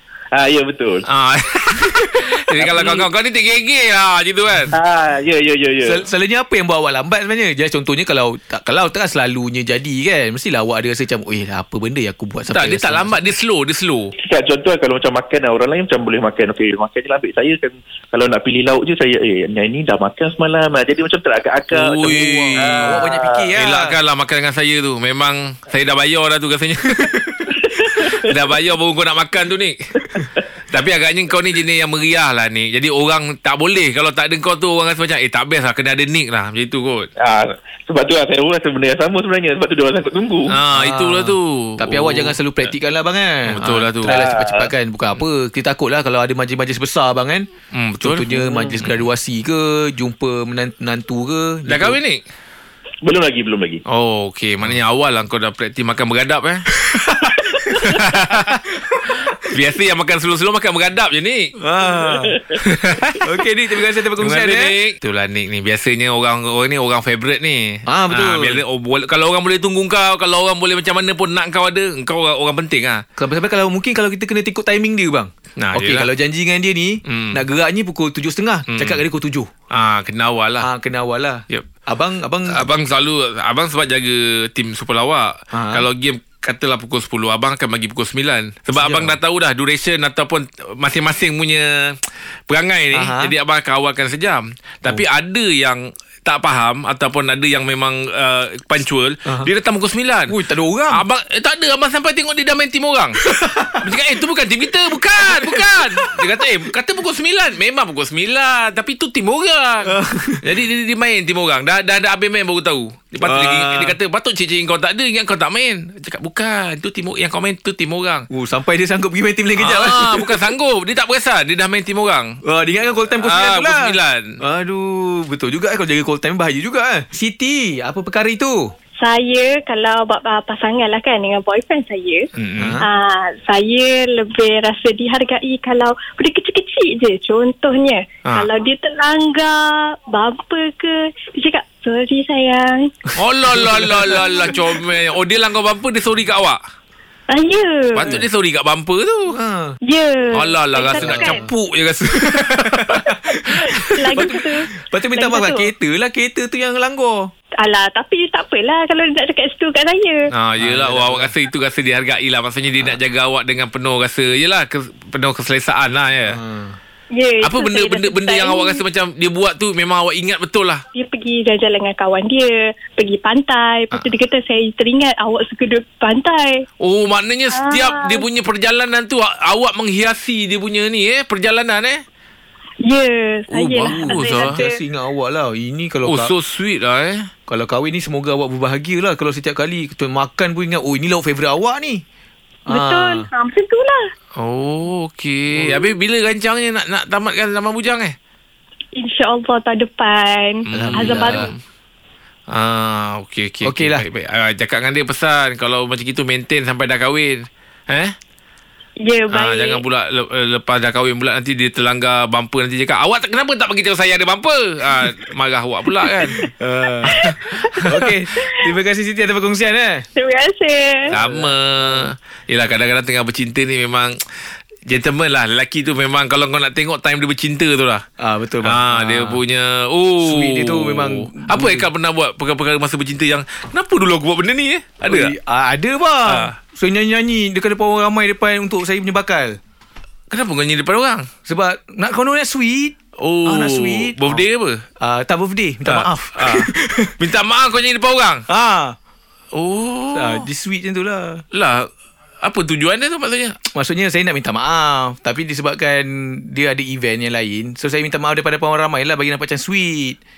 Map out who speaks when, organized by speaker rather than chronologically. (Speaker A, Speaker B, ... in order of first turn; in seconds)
Speaker A: 0.3-1.1, 2.6-3.0, 4.7-6.0, 14.2-23.4, 27.7-28.3, 37.2-40.6, 44.0-44.7, 53.0-53.8, 62.1-62.6
Speaker B: 1.1-4.7, 12.5-14.1, 21.7-23.1, 23.6-27.5, 28.1-29.8, 30.7-37.1, 40.5-42.4, 43.5-44.2, 47.7-49.0, 51.7-52.2, 53.9-56.7, 57.8-58.5, 59.5-61.5, 62.6-63.2, 64.2-73.0, 75.6-76.1, 77.1-77.4, 78.7-79.0, 79.7-80.7, 82.5-100.3, 100.9-103.2, 103.8-118.3, 119.6-122.4, 123.2-124.4, 132.3-132.8, 143.2-146.6, 148.0-149.4, 150.3-153.2, 160.3-166.4, 167.4-170.8, 176.8-182.0, 183.6-184.6, 186.1-187.3, 194.4-198.2, 200.7-201.6, 202.5-208.1, 209.3-216.4, 217.3-218.0, 221.1-224.2, 224.9-228.0, 228.6-235.3, 236.3-236.5, 240.3-241.3, 243.2-244.8, 245.9-248.4, 249.5-250.5, 251.5-251.9, 252.4-253.6
Speaker C: 5.8-13.1, 22.1-23.9, 40.7-47.5, 48.0-52.0, 56.9-57.4, 61.6-62.4, 63.2-64.7, 67.9-68.6, 73.2-79.5, 80.6-82.7, 85.5-85.8, 88.8-89.2, 92.9-93.3, 100.3-101.0, 103.2-103.8, 104.9-106.5, 109.8-110.5, 113.2-114.0, 118.3-120.5, 122.4-128.7, 132.6-132.8, 143.4-144.6, 149.3-149.8, 151.0-157.3, 160.6-161.3, 166.3-166.8, 183.7-186.3, 187.5-192.0, 192.7-193.3, 195.5-195.9, 200.7-201.5, 203.6-204.1, 216.6-220.1, 221.1-222.1, 228.2-229.4, 230.2-231.9, 235.1-239.6, 241.5-244.4, 245.0-247.1, 248.5-249.0, 250.1-251.4, 253.7-260.2
Speaker D: 129.0-132.3, 132.8-142.9, 147.3-148.2, 149.8-151.5, 153.9-155.7, 157.6-160.3, 167.1-168.8, 170.9-176.7, 177.5-178.3, 182.8-184.8, 192.7-194.0, 199.0-201.5, 209.0-209.8, 217.1-217.9, 220.2-221.1